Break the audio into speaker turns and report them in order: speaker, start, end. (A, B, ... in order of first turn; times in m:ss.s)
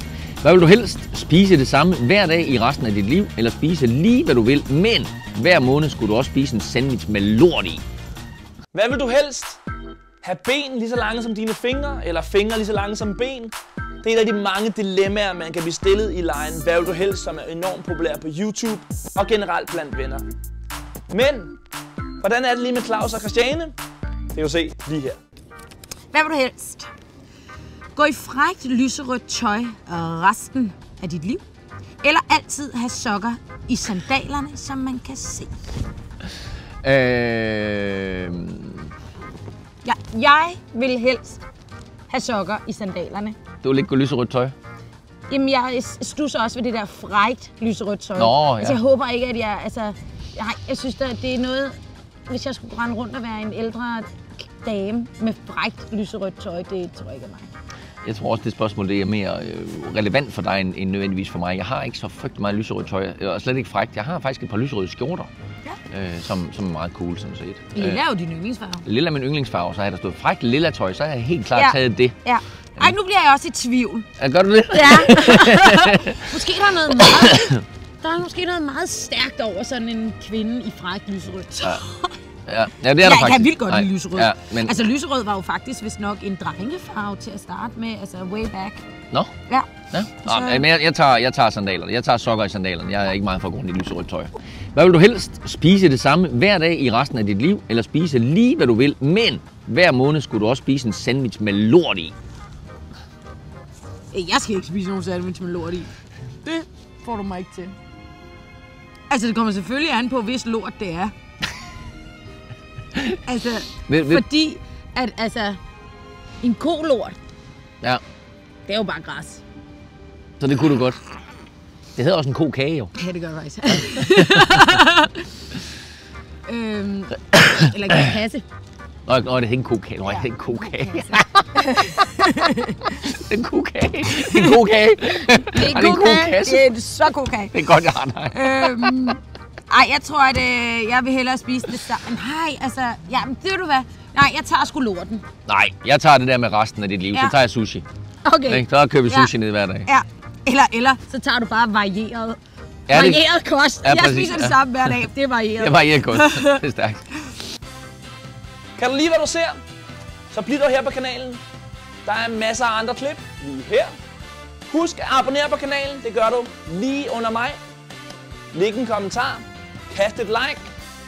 0:00.4-0:07.8 A
0:08.7-0:09.6 B
0:10.2-0:20.3 B
0:21.1-0:21.6 B
0:22.2-0:23.8 B
0:24.3-0:25.2 B
0:26.1-0:26.9 C
0:27.9-0:31.4 C
0:32.0-0:35.5 C
0:36.8-0:38.9 A
0:39.8-0:41.4 C
0:42.1-0:43.4 C
0:43.6-0:44.5 A
0:45.3-0:57.5 C
0:48.2-0:48.8 A
0:58.0-1:05.3 A
1:05.9-1:08.0 A
1:07.7-1:08.8 C
1:08.8-1:12.2 A
1:11.5-1:14.1 C
1:14.2-1:16.3 A
1:14.7-1:22.2 C
1:17.0-1:17.6 A
1:22.5-1:24.8 A
1:23.0-1:28.8 C
1:29.4-1:30.7 C
1:29.9-1:42.1 A
1:44.1-1:45.9 C
1:46.4-1:47.7 C
1:49.1-1:51.1 C
1:53.2-1:55.6 C
1:53.9-1:54.2 A
1:56.4-1:57.2 C
1:58.6-1:59.4 C
2:00.4-2:01.0 A
2:02.0-2:02.9 A
2:02.9-2:05.5 C
2:03.9-2:04.3 A
2:06.4-2:08.4 C
2:07.3-2:07.7 A
2:09.0-2:11.5 A
2:10.0-2:13.0 C
2:12.9-2:16.7 A
2:14.1-2:17.8 C
2:17.5-2:19.0 A
2:18.3-2:25.2 C
2:25.4-2:27.8 A
2:27.1-2:27.4 C
2:28.2-2:29.3 C
2:28.5-2:29.9 A
2:29.8-2:37.3 C
2:32.9-2:33.2 A
2:33.8-2:35.0 A
2:35.6-2:37.0 A
2:38.8-2:39.6 B
2:40.3-2:41.4 B
2:42.0-2:43.9 B
2:44.7-2:47.6 B
2:48.5-2:50.7 B